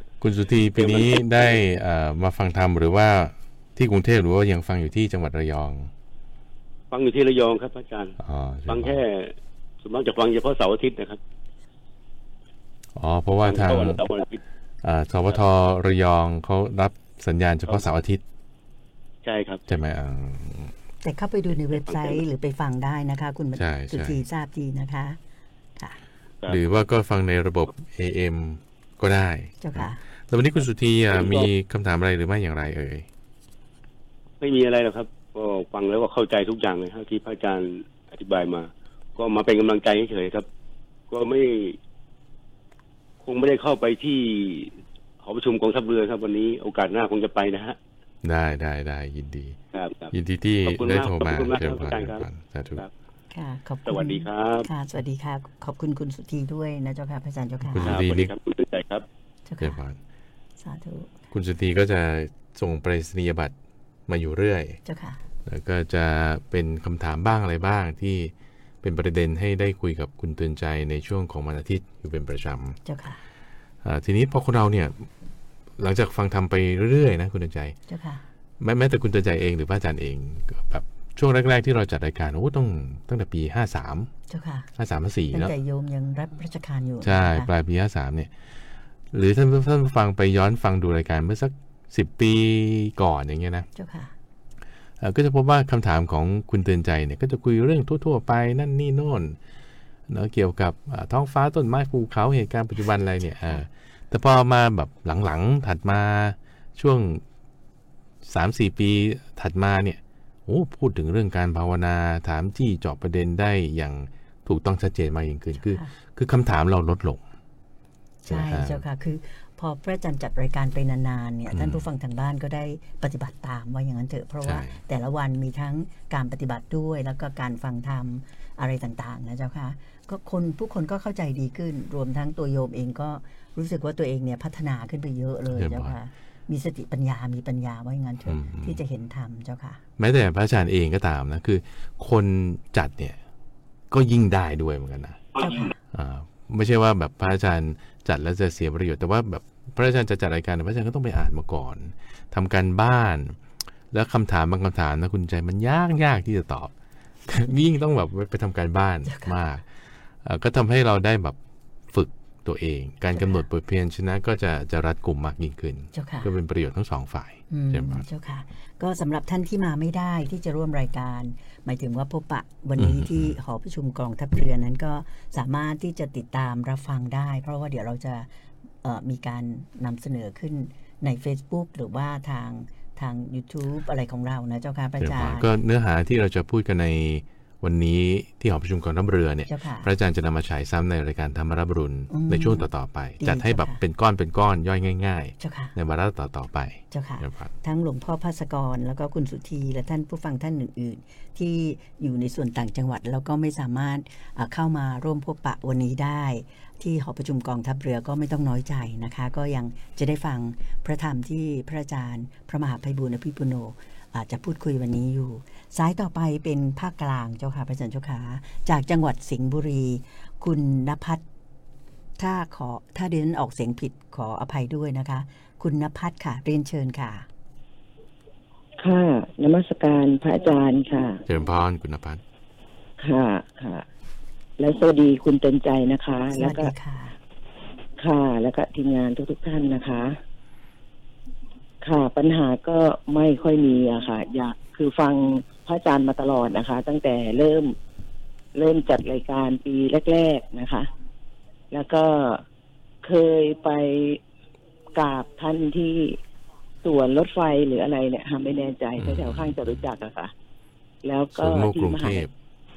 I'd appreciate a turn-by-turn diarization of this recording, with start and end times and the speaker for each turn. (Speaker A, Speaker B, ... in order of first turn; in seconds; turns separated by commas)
Speaker A: 0.2-5.9, Speaker B: 0.8-1.5, Speaker B: 6.9-8.2, Speaker A: 8.2-9.0, Speaker B: 8.7-11.2, Speaker A: 13.0-14.0, Speaker B: 13.4-14.4, Speaker A: 14.8-18.2, Speaker B: 19.2-19.6, Speaker A: 19.7-20.7, Speaker C: 21.0-25.2, Speaker B: 21.9-22.2, Speaker A: 23.6-24.2, Speaker A: 26.5-33.1, Speaker C: 29.6-30.0, Speaker B: 31.1-31.5, Speaker B: 34.4-40.5, Speaker B: 41.1-41.8, Speaker B: 43.2-47.8, Speaker A: 48.2-49.6, Speaker B: 49.7-50.1, Speaker A: 50.1-52.8, Speaker B: 50.6-52.3, Speaker C: 53.3-57.9, Speaker B: 53.9-54.7, Speaker A: 57.7-58.3, Speaker B: 57.8-59.0, Speaker C: 59.5-59.8, Speaker A: 59.6-60.0, Speaker C: 60.6-61.1, Speaker A: 61.3-63.5, Speaker A: 64.1-64.8, Speaker C: 64.8-65.2, Speaker A: 65.5-72.8, Speaker C: 72.8-73.2, Speaker A: 73.8-75.1, Speaker A: 75.8-77.8, Speaker C: 77.9-78.2, Speaker A: 78.6-84.1, Speaker C: 84.3-84.7, Speaker A: 84.8-85.5, Speaker C: 85.3-87.5, Speaker A: 87.0-88.3, Speaker A: 89.1-93.7, Speaker C: 93.8-94.1, Speaker A: 95.0-99.4, Speaker A: 100.1-107.2, Speaker A: 108.2-117.2, Speaker C: 115.6-115.9, Speaker C: 118.3-139.8, Speaker A: 118.3-118.8, Speaker A: 121.5-121.9, Speaker A: 124.4-124.8, Speaker A: 135.5-135.9, Speaker A: 138.2-138.8, Speaker A: 140.0-143.2, Speaker A: 143.9-153.4, Speaker C: 145.4-145.7, Speaker A: 153.9-156.7, Speaker A: 157.3-159.7, Speaker C: 159.1-159.3, Speaker A: 160.2-161.4, Speaker A: 161.9-168.0, Speaker C: 163.2-163.4, Speaker C: 165.9-166.3, Speaker C: 167.5-178.3, Speaker A: 172.8-173.3, Speaker C: 178.8-185.5, Speaker A: 185.0-197.5, Speaker C: 189.5-189.9, Speaker C: 192.1-192.7, Speaker C: 193.2-193.8, Speaker C: 195.4-195.7, Speaker C: 196.9-221.2, Speaker C: 222.2-227.3, Speaker D: 228.8-231.2, Speaker A: 231.3-232.2, Speaker D: 233.0-233.9, Speaker D: 234.6-236.7, Speaker C: 236.3-237.2, Speaker D: 238.0-240.1, Speaker D: 241.8-247.8, Speaker D: 248.6-250.9, Speaker D: 251.7-252.4, Speaker D: 253.0-254.2, Speaker D: 254.9-256.2, Speaker D: 256.8-260.3, Speaker A: 259.0-259.9, Speaker D: 261.0-262.3, Speaker A: 261.4-262.3